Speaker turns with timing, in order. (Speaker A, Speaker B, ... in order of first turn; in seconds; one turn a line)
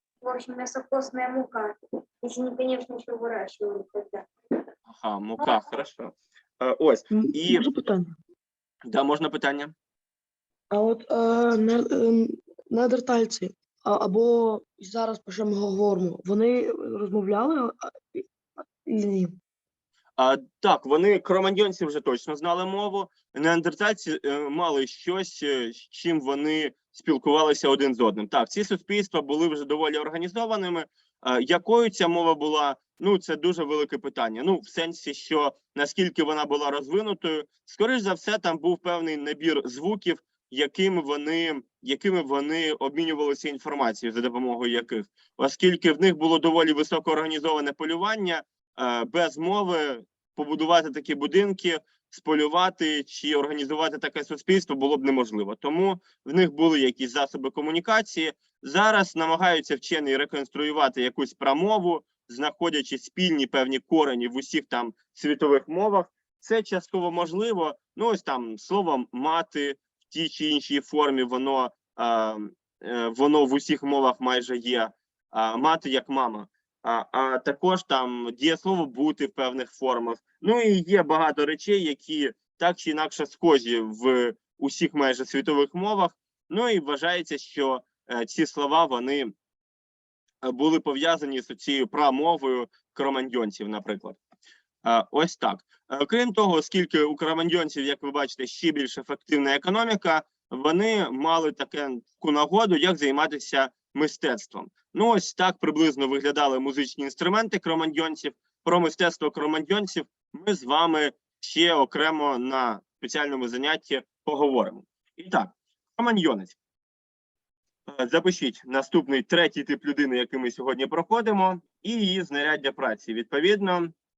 Speaker A: 0.2-4.3
Speaker B: 4.9-7.7
Speaker C: 7.1-8.2
Speaker B: 8.9-9.7
Speaker C: 10.7-18.2
Speaker C: 18.9-19.3
Speaker B: 20.2-89.3
Speaker B: 90.4-94.2
Speaker B: 94.8-116.6
Speaker B: 117.9-123.9